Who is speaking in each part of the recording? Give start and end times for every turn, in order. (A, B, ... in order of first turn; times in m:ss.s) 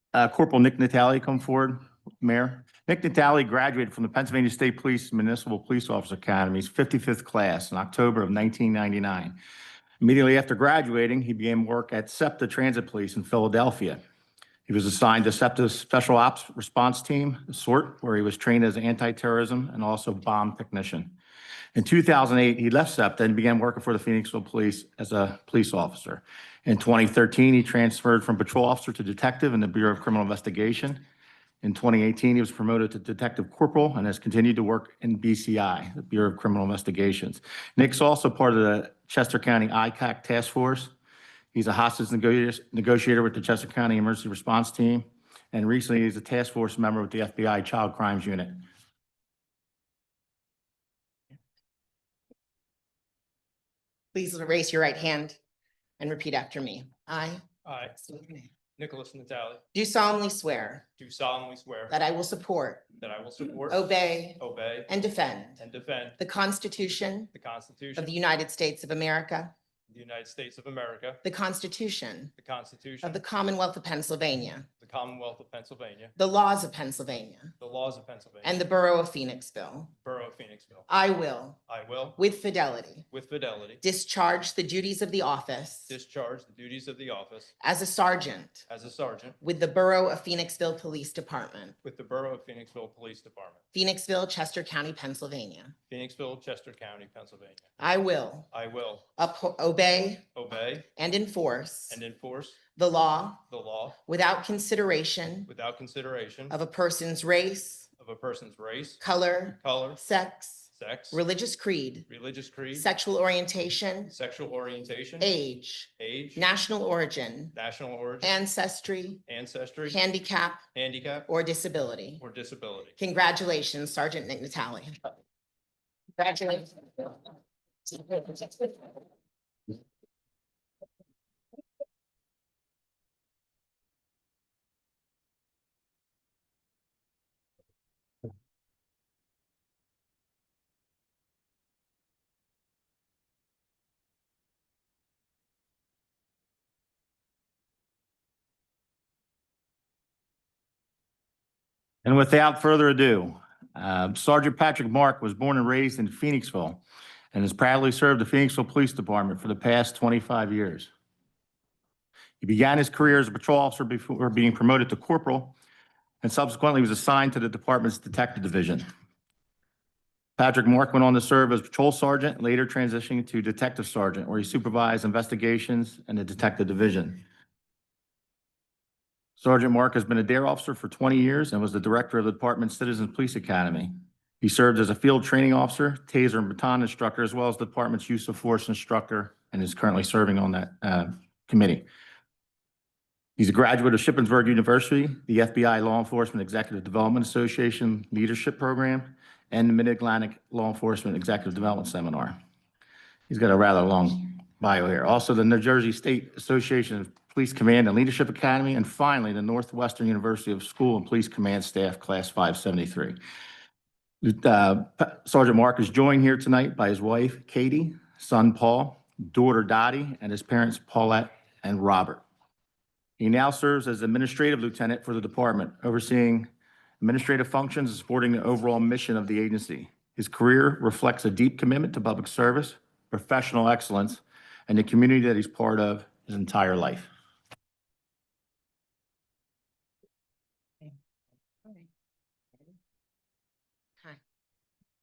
0:00.1-0:09.4 A
0:10.0-0:14.0 A
0:14.7-0:21.2 A
0:21.8-0:31.0 A
0:31.6-0:40.9 A
0:41.5-0:48.6 A
0:54.1-0:55.4 B
0:56.0-0:58.5 B
0:57.6-0:57.9 C
0:58.8-0:59.6 C
0:59.7-1:00.9 B
1:01.0-1:02.0 C
1:01.9-1:02.9 B
1:03.0-1:04.9 C
1:03.7-1:05.6 B
1:05.6-1:06.2 C
1:06.2-1:07.3 B
1:07.3-1:08.1 C
1:08.0-1:09.5 B
1:09.9-1:11.2 C
1:11.2-1:12.3 B
1:12.4-1:13.2 C
1:13.0-1:14.7 B
1:14.8-1:16.1 C
1:16.2-1:17.6 B
1:17.6-1:18.6 C
1:18.4-1:19.9 B
1:20.0-1:20.9 C
1:20.9-1:21.6 B
1:21.7-1:22.2 C
1:22.2-1:23.1 B
1:23.1-1:23.8 C
1:23.8-1:26.0 B
1:25.9-1:27.5 C
1:27.6-1:28.7 B
1:28.7-1:29.4 C
1:29.4-1:31.8 B
1:31.8-1:33.6 C
1:33.7-1:35.8 B
1:35.9-1:37.6 C
1:37.8-1:38.5 B
1:38.5-1:39.1 C
1:39.2-1:40.3 B
1:40.3-1:40.9 C
1:40.9-1:42.0 B
1:41.9-1:42.6 C
1:42.7-1:43.4 B
1:43.5-1:44.0 C
1:44.0-1:45.5 B
1:45.5-1:46.6 C
1:46.5-1:47.9 B
1:48.0-1:49.0 C
1:49.0-1:52.1 B
1:49.6-1:50.0 C
1:50.7-1:51.2 C
1:52.1-1:52.9 C
1:52.7-1:54.1 B
1:54.1-1:55.3 C
1:55.2-1:57.6 B
1:56.0-1:56.5 C
1:57.5-1:58.4 C
1:58.2-1:59.2 B
1:59.3-2:00.0 C
1:59.9-2:00.7 B
2:00.7-2:01.3 C
2:01.3-2:02.2 B
2:02.2-2:03.0 C
2:03.0-2:05.1 B
2:06.2-2:07.1 B
2:07.9-2:08.8 B
2:32.0-2:36.8 A
2:37.3-2:40.9 A
2:42.4-2:45.5 A
2:46.2-2:48.8 A
2:50.4-2:57.2 A
2:59.4-3:11.8 A
3:13.4-3:22.4 A
3:23.3-3:33.2 A
3:34.2-3:42.2 A
3:43.2-3:46.5 A
3:47.0-3:57.1 A